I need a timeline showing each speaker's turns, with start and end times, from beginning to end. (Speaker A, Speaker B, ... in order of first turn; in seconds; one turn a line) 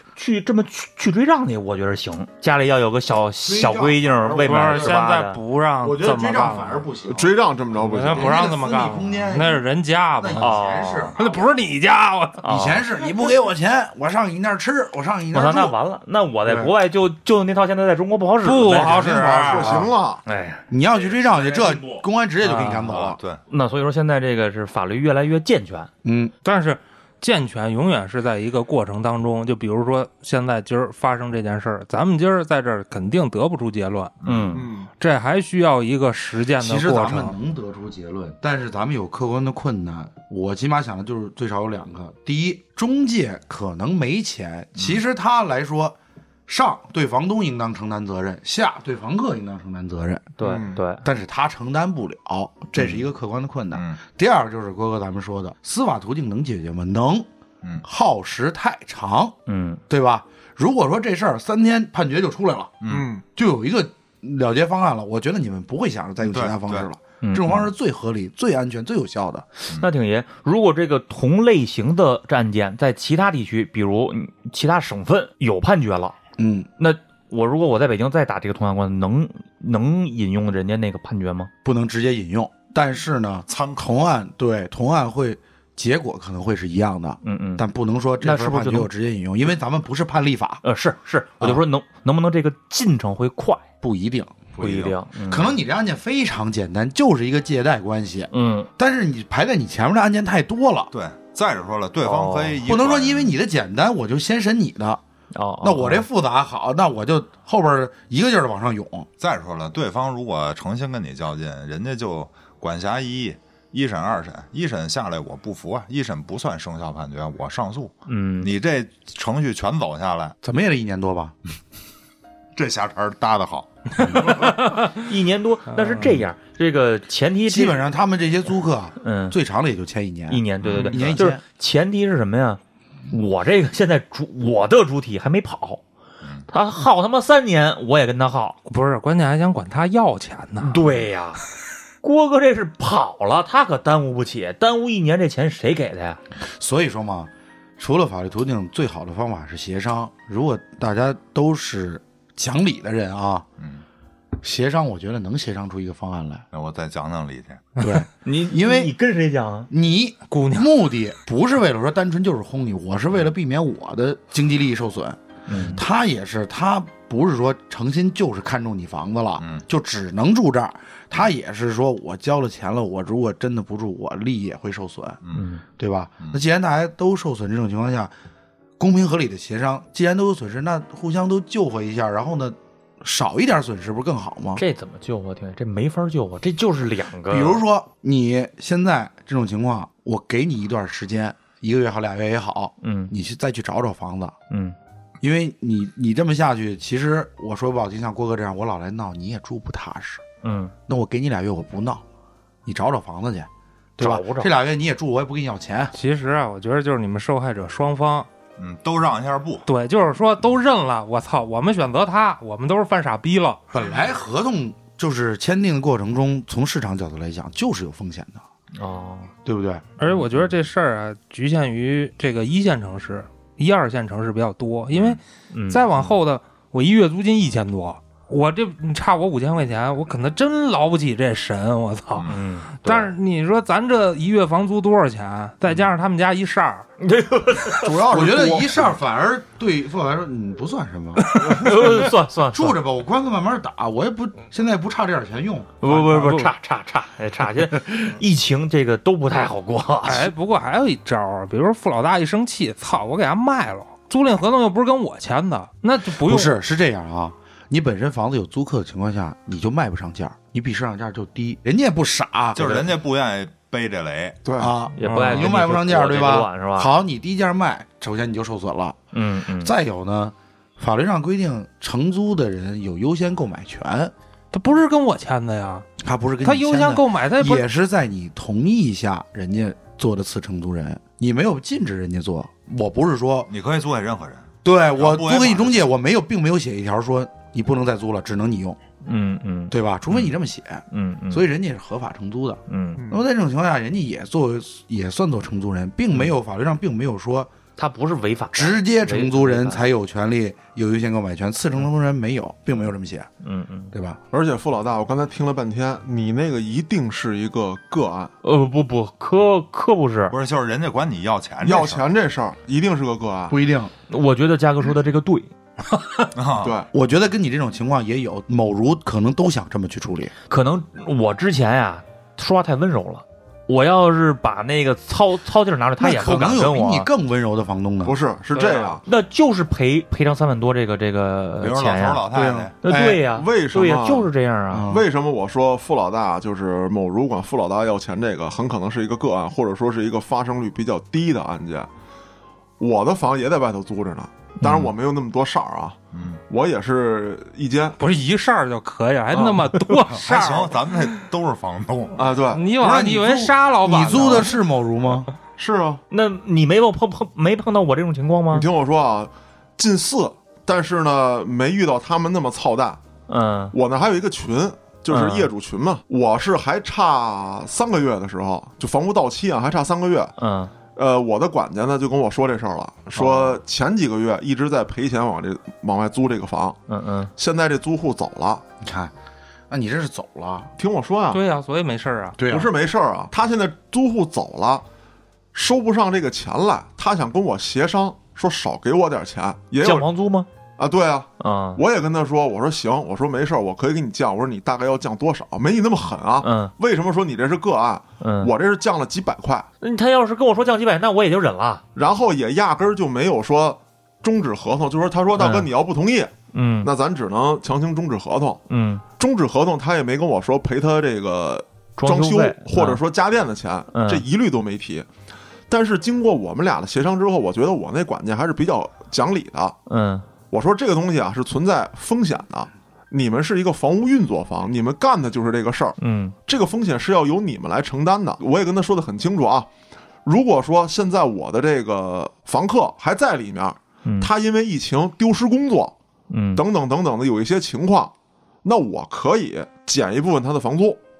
Speaker A: 0.1-5.4
Speaker B: 3.4-5.0
Speaker C: 4.4-6.9
Speaker B: 5.8-7.3
Speaker D: 7.0-8.4
Speaker C: 7.8-10.6
Speaker B: 8.1-9.6
Speaker B: 10.2-11.3
Speaker A: 10.4-11.1
Speaker C: 11.2-12.4
Speaker A: 12.4-12.8
Speaker B: 12.4-15.8
Speaker A: 15.3-25.9
Speaker B: 16.5-16.7
Speaker C: 18.4-19.9
Speaker E: 18.6-19.8
Speaker D: 19.4-20.2
Speaker B: 20.7-23.2
Speaker E: 22.9-23.4
Speaker B: 26.0-26.3
Speaker C: 26.4-34.1
Speaker E: 34.2-34.6
Speaker A: 34.2-34.7
Speaker D: 34.5-34.9
Speaker C: 35.0-37.3
Speaker B: 36.6-45.9
Speaker B: 46.5-50.3
Speaker A: 50.4-51.0
Speaker D: 50.4-50.8
Speaker B: 51.0-57.3
Speaker E: 53.7-54.0
Speaker B: 57.8-59.3
Speaker A: 59.5-59.8
Speaker B: 59.9-62.7
Speaker E: 62.8-63.1
Speaker D: 62.9-63.2
Speaker B: 63.3-69.5
Speaker E: 66.2-66.8
Speaker A: 67.2-67.6
Speaker A: 69.6-76.2
Speaker B: 76.4-76.7
Speaker A: 76.8-81.5
Speaker B: 81.6-90.6
Speaker E: 83.5-83.9
Speaker A: 87.2-87.6
Speaker A: 88.2-88.9
Speaker A: 90.6-93.6
Speaker B: 93.8-94.4
Speaker E: 94.5-95.0
Speaker A: 94.6-95.5
Speaker B: 95.3-100.9
Speaker A: 98.3-98.7
Speaker E: 100.9-103.3
Speaker A: 102.0-102.6
Speaker B: 102.7-105.0
Speaker A: 105.3-106.0
Speaker B: 105.6-109.1
Speaker E: 109.2-120.3
Speaker A: 118.1-118.5
Speaker B: 120.4-121.3
Speaker E: 122.5-124.6
Speaker C: 124.4-124.8
Speaker A: 124.9-127.8
Speaker C: 125.7-126.2
Speaker B: 127.5-131.4
Speaker A: 129.0-129.3
Speaker A: 130.3-135.8
Speaker E: 130.6-131.1
Speaker A: 136.5-138.6
Speaker C: 138.7-140.8
Speaker A: 140.6-141.4
Speaker A: 142.0-146.2
Speaker B: 146.4-153.4
Speaker B: 154.4-156.4
Speaker E: 156.5-157.7
Speaker B: 157.8-158.9
Speaker A: 158.2-159.7
Speaker B: 159.7-175.2
Speaker C: 160.3-160.7
Speaker A: 165.5-165.8
Speaker A: 175.3-175.6
Speaker B: 175.8-178.1
Speaker B: 178.8-184.6
Speaker A: 184.6-187.6
Speaker B: 187.3-194.3
Speaker A: 192.8-193.1
Speaker A: 194.5-194.7
Speaker B: 195.2-200.2
Speaker A: 200.4-200.7
Speaker B: 200.9-202.0
Speaker B: 202.6-205.9
Speaker A: 204.0-204.5
Speaker C: 205.9-208.3
Speaker E: 208.6-209.7
Speaker C: 209.7-213.6
Speaker B: 213.7-218.4
Speaker A: 218.8-219.3
Speaker B: 219.4-219.8
Speaker C: 220.0-236.9
Speaker E: 224.9-225.2
Speaker A: 225.5-225.8
Speaker E: 232.1-232.4
Speaker A: 232.3-233.1
Speaker A: 237.0-238.0
Speaker D: 237.8-238.8
Speaker B: 238.0-241.8
Speaker C: 241.2-241.7
Speaker A: 241.4-242.8
Speaker B: 242.5-246.0
Speaker A: 245.8-250.3
Speaker C: 246.1-246.4
Speaker C: 250.0-256.5
Speaker B: 256.2-262.8
Speaker E: 262.5-264.4
Speaker D: 264.4-264.7
Speaker B: 264.6-269.0
Speaker A: 264.9-266.9
Speaker C: 265.0-265.5
Speaker A: 269.1-269.7
Speaker B: 269.6-274.1
Speaker C: 274.5-275.9
Speaker B: 276.0-283.5
Speaker C: 276.4-277.6
Speaker E: 283.5-285.8
Speaker B: 284.6-288.8
Speaker A: 289.0-289.7
Speaker B: 289.7-297.5
Speaker A: 290.9-291.4
Speaker A: 292.7-293.0
Speaker D: 293.0-293.2
Speaker A: 297.8-299.8
Speaker B: 298.5-303.3
Speaker A: 303.4-303.9
Speaker B: 303.9-304.2
Speaker D: 304.3-308.3
Speaker A: 308.4-310.3
Speaker E: 310.3-312.0
Speaker D: 311.6-313.6
Speaker B: 313.5-313.9
Speaker A: 314.1-315.5
Speaker E: 316.3-316.7
Speaker D: 316.6-316.9
Speaker B: 316.9-320.3
Speaker A: 320.5-327.1
Speaker B: 326.0-328.2
Speaker D: 328.0-329.0
Speaker A: 328.5-332.2
Speaker E: 331.6-332.7
Speaker B: 332.3-332.7
Speaker A: 332.8-334.9
Speaker D: 332.8-334.3
Speaker B: 334.7-335.0
Speaker D: 334.9-341.9
Speaker D: 342.8-346.0
Speaker A: 344.6-344.9
Speaker E: 346.1-346.4
Speaker D: 346.5-348.0
Speaker C: 348.0-351.0
Speaker D: 349.3-349.7
Speaker E: 350.1-352.3
Speaker D: 352.1-352.6
Speaker C: 352.5-354.6
Speaker B: 352.8-355.3
Speaker D: 355.6-356.0
Speaker A: 356.1-358.7
Speaker D: 358.5-363.0
Speaker A: 363.3-363.7
Speaker D: 363.7-370.3
Speaker A: 365.1-365.5
Speaker A: 370.4-370.7
Speaker D: 370.9-376.8
Speaker A: 373.1-373.6
Speaker A: 376.9-377.3
Speaker D: 377.4-378.6
Speaker B: 378.8-379.1
Speaker B: 379.7-380.7
Speaker D: 380.8-381.4
Speaker C: 381.3-382.4
Speaker B: 382.4-382.7
Speaker D: 382.4-384.8
Speaker D: 385.5-390.1
Speaker A: 389.8-390.5
Speaker D: 390.8-399.7
Speaker A: 391.4-391.8
Speaker A: 396.4-396.7
Speaker A: 398.2-398.5
Speaker A: 399.8-401.8
Speaker D: 401.9-408.6
Speaker A: 405.4-405.7
Speaker A: 406.5-406.9
Speaker A: 408.7-409.0
Speaker D: 409.2-415.1
Speaker A: 412.0-413.0
Speaker A: 413.9-414.2
Speaker D: 415.7-419.8
Speaker A: 419.9-420.2
Speaker D: 420.5-429.7
Speaker A: 426.0-426.3
Speaker D: 430.2-435.9
Speaker A: 434.0-434.3
Speaker A: 436.3-436.6
Speaker D: 436.5-438.1
Speaker D: 438.6-441.0